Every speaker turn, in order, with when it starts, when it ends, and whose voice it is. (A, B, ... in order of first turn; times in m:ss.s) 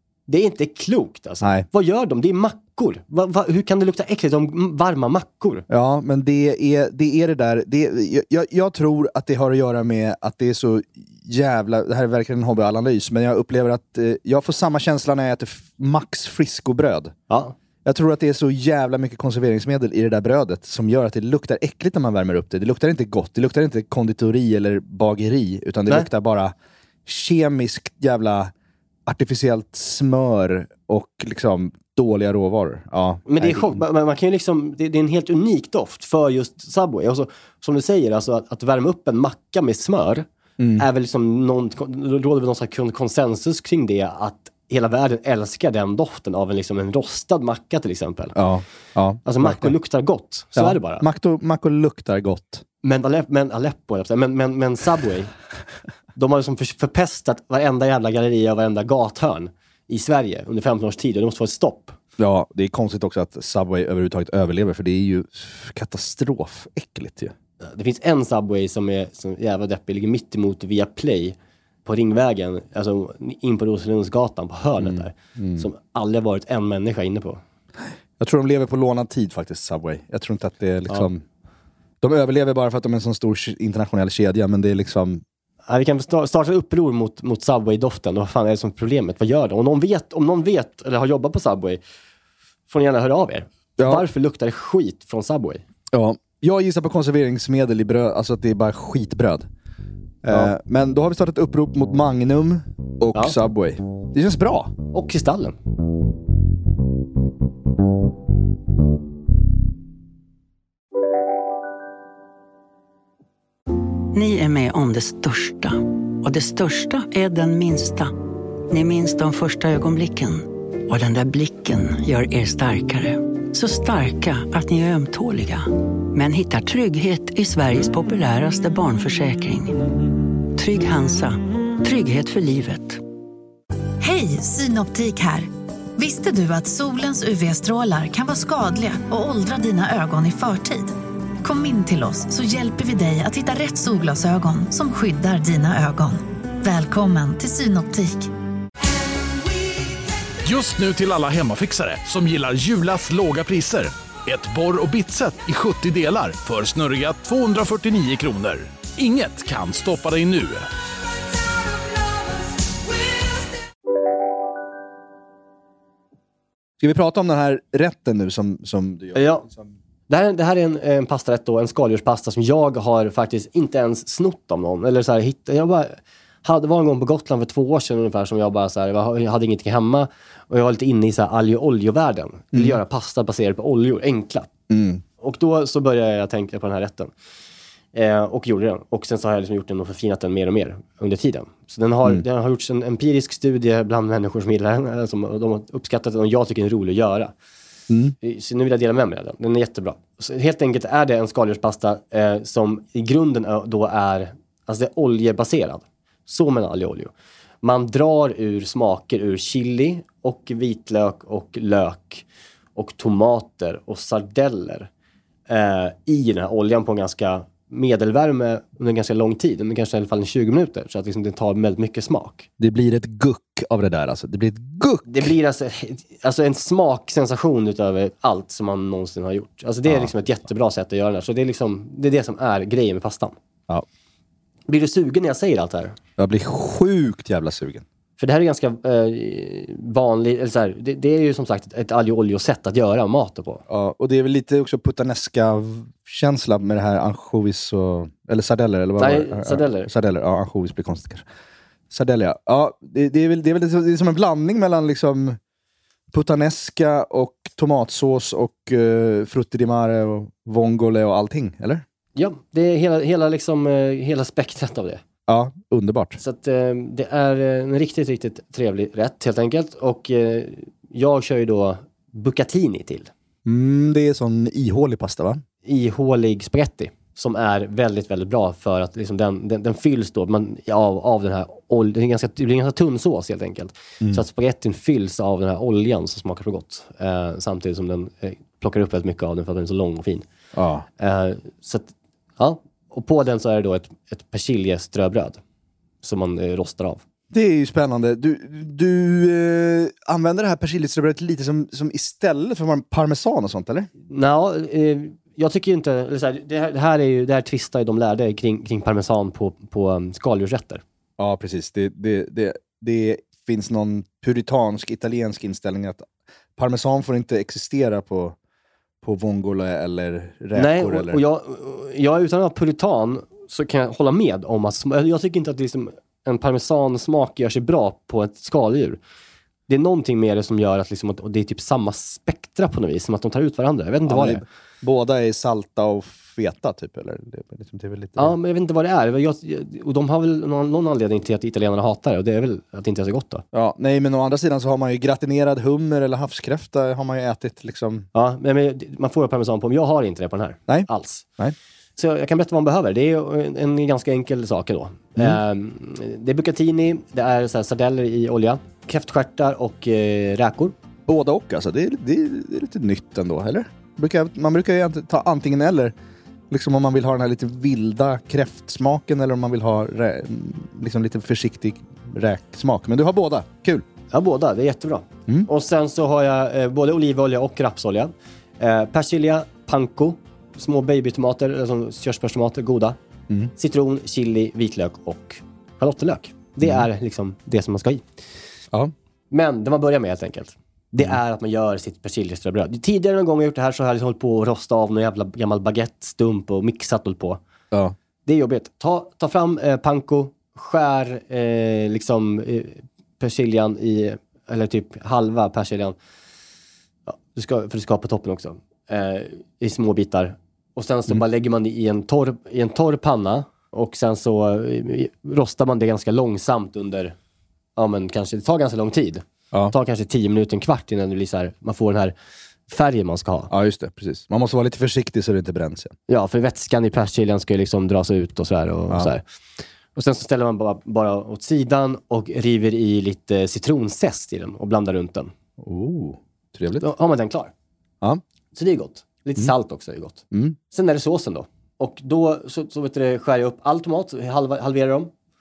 0:00.3-0:05.6 A
0:05.7-0:17.1 B
0:17.3-0:17.5 A
0:17.8-0:26.5 B
0:27.0-0:28.5 B
0:29.0-0:33.8 B
0:33.3-0:40.2 A
0:40.6-0:40.8 B
0:40.8-0:48.4 A
0:48.4-0:49.7 B
0:49.2-0:51.0 A
0:50.5-0:52.6 B
0:52.8-0:55.3 A
0:56.1-1:02.0 A
1:02.2-1:07.3 B
1:07.6-1:17.4 A
1:14.8-1:15.7 B
1:18.2-1:21.2 B
1:22.0-1:25.2 B
1:25.7-1:31.8 A
1:32.7-1:35.6 A
1:33.8-1:34.0 B
1:35.9-1:39.5 B
1:40.2-1:44.7 B
1:44.9-1:45.6 A
1:54.1-1:58.1 C
1:58.7-2:09.8 C
2:10.5-2:13.0 C
2:14.0-2:28.3 D
2:30.4-2:40.7 E
2:46.8-2:49.7 B
2:49.1-2:49.4 A
2:50.1-3:04.5 A
3:02.5-3:02.8 B
3:04.7-3:05.0 B
3:05.2-3:07.1 A
3:07.9-3:17.3 A
3:17.9-3:18.2 B
3:18.2-3:32.2 A
3:32.8-3:34.9 A
3:35.5-3:42.5 A
3:42.6-3:45.3 B
3:45.1-3:53.3 A
3:49.8-3:50.1 B
3:54.7-3:56.0 A
3:56.2-3:57.8 B
3:58.2-4:03.6 A
4:03.7-4:11.2 B
4:09.0-4:09.9 A
4:11.9-4:15.4 B
4:16.1-4:21.8 B
4:22.2-4:25.0 A
4:25.3-4:26.2 B
4:26.2-4:33.1 A
4:33.4-4:35.4 B
4:35.6-4:50.2 A
4:50.5-4:50.8 B
4:51.0-4:55.4 A
4:56.0-4:57.0 A
4:57.3-5:03.9 B
5:04.1-5:10.8 A
5:11.2-5:18.4 B
5:19.0-5:21.2 B
5:20.5-5:29.0 A
5:29.7-5:34.4 A
5:34.1-5:38.3 B
5:38.2-5:43.4 A
5:43.5-5:48.1 B
5:48.1-5:51.2 A
5:52.0-6:00.7 A
6:01.1-6:05.9 B
6:06.5-6:13.8 B
6:14.1-6:23.0 A
6:23.6-6:28.0 A
6:26.6-6:26.9 B
6:29.3-6:37.4 A
6:38.2-6:46.0 A
6:47.1-6:57.1 A
6:57.8-7:02.1 A
7:02.7-7:03.5 A
7:03.5-7:05.9 B
7:06.1-7:09.2 A
7:09.9-7:15.3 A
7:15.6-7:16.9 B
7:16.8-7:17.5 A
7:18.5-7:25.1 A
7:20.3-7:20.6 B